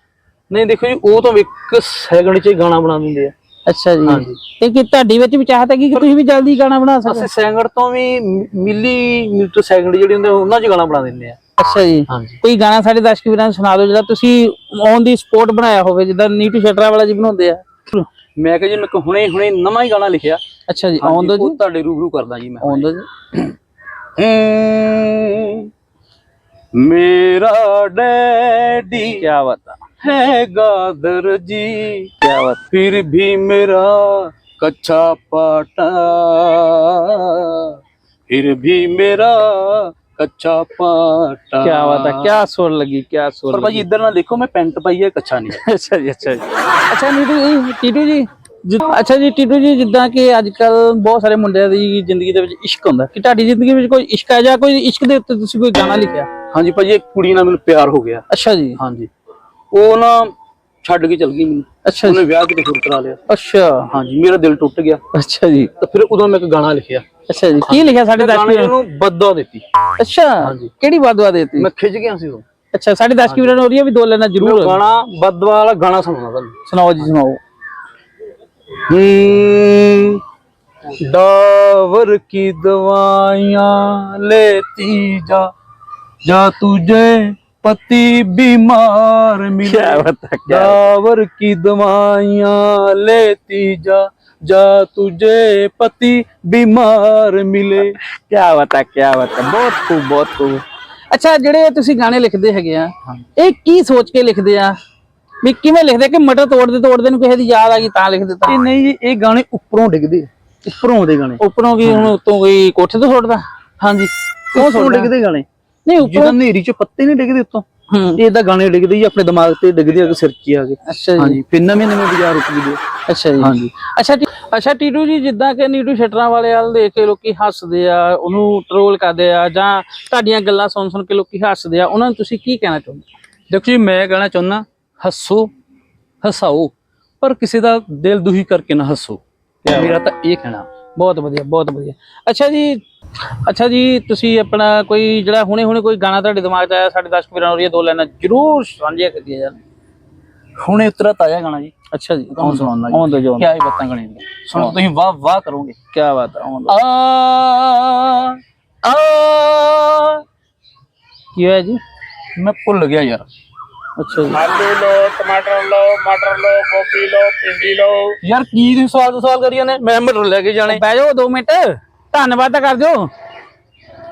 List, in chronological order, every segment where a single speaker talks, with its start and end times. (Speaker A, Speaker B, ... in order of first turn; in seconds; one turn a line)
Speaker A: 0.5-3.3
Speaker B: 3.7-7.3
Speaker A: 4.0-4.4
Speaker A: 7.0-11.4
Speaker B: 11.6-18.1
Speaker A: 12.1-12.4
Speaker A: 18.4-20.4
Speaker B: 20.7-21.6
Speaker A: 21.0-22.9
Speaker B: 22.6-23.1
Speaker A: 24.1-25.7
Speaker A: 26.7-29.2
Speaker B: 29.1-29.8
Speaker A: 30.0-32.1
Speaker B: 32.2-32.6
Speaker A: 32.7-37.8
Speaker A: 38.3-42.4
Speaker B: 41.6-43.8
Speaker A: 43.5-45.6
Speaker B: 45.6-56.3
Speaker A: 56.5-58.2
Speaker B: 58.3-58.8
Speaker A: 58.8-59.1
Speaker A: 59.7-63.2
Speaker B: 61.8-62.2
Speaker B: 63.3-63.9
Speaker A: 63.9-65.0
Speaker B: 65.1-65.7
Speaker A: 65.8-67.0
Speaker B: 67.3-68.7
Speaker A: 67.6-69.6
Speaker B: 70.0-71.7
Speaker A: 70.4-70.7
Speaker A: 71.6-72.4
Speaker B: 72.7-74.8
Speaker A: 73.2-73.6
Speaker A: 74.4-76.6
Speaker B: 76.7-77.4
Speaker A: 78.8-80.2
Speaker A: 81.0-85.5
Speaker A: 86.2-98.0
Speaker B: 89.6-90.9
Speaker B: 98.0-104.7
Speaker B: 105.4-108.6
Speaker A: 108.5-112.1
Speaker B: 111.4-113.4
Speaker A: 113.8-115.5
Speaker B: 114.5-115.1
Speaker B: 115.8-116.4
Speaker A: 116.0-117.6
Speaker B: 117.9-118.2
Speaker A: 118.2-122.8
Speaker B: 120.8-121.4
Speaker B: 123.0-133.1
Speaker A: 123.4-123.7
Speaker A: 133.5-135.5
Speaker A: 136.2-140.7
Speaker B: 139.6-140.0
Speaker B: 140.9-149.6
Speaker A: 150.6-151.7
Speaker B: 151.9-153.5
Speaker A: 152.3-155.8
Speaker B: 155.9-156.8
Speaker A: 156.7-160.2
Speaker B: 161.3-161.8
Speaker A: 162.3-163.2
Speaker B: 164.0-164.5
Speaker C: 164.5-168.2
Speaker A: 168.2-170.8
Speaker B: 170.7-173.1